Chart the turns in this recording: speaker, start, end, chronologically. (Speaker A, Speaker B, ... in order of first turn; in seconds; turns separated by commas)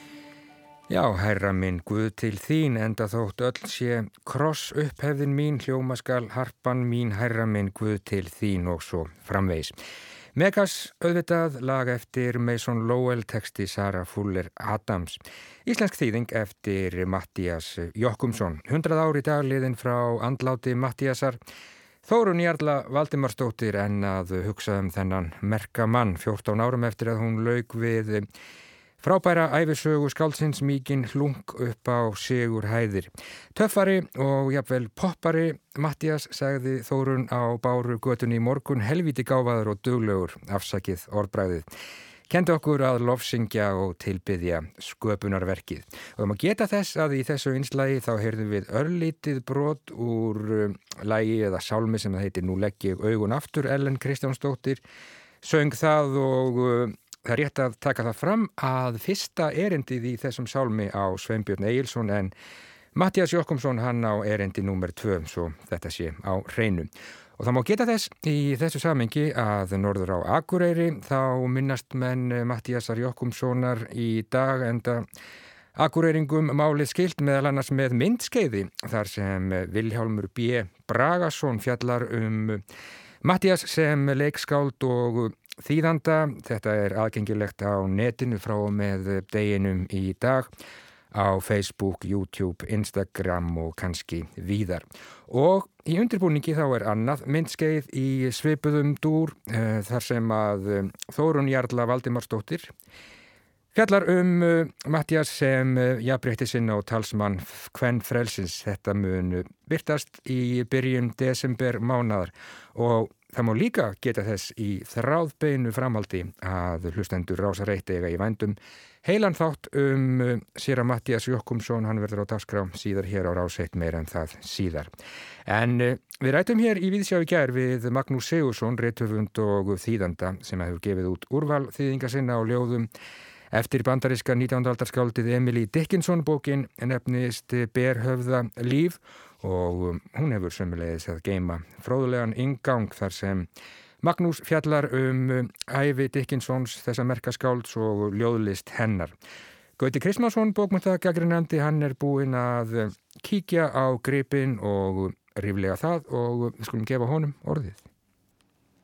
Speaker A: 0.9-9.7, Speaker A: 10.3-21.4, Speaker A: 22.0-28.3, Speaker A: 29.0-41.7, Speaker A: 42.3-54.8, Speaker A: 55.4-62.3, Speaker A: 62.9-75.0, Speaker A: 75.7-82.6, Speaker A: 83.2-90.5, Speaker A: 91.1-102.7, Speaker A: 103.7-124.9, Speaker A: 125.5-132.9, Speaker A: 133.5-143.5, Speaker A: 144.0-149.1, Speaker A: 149.8-157.8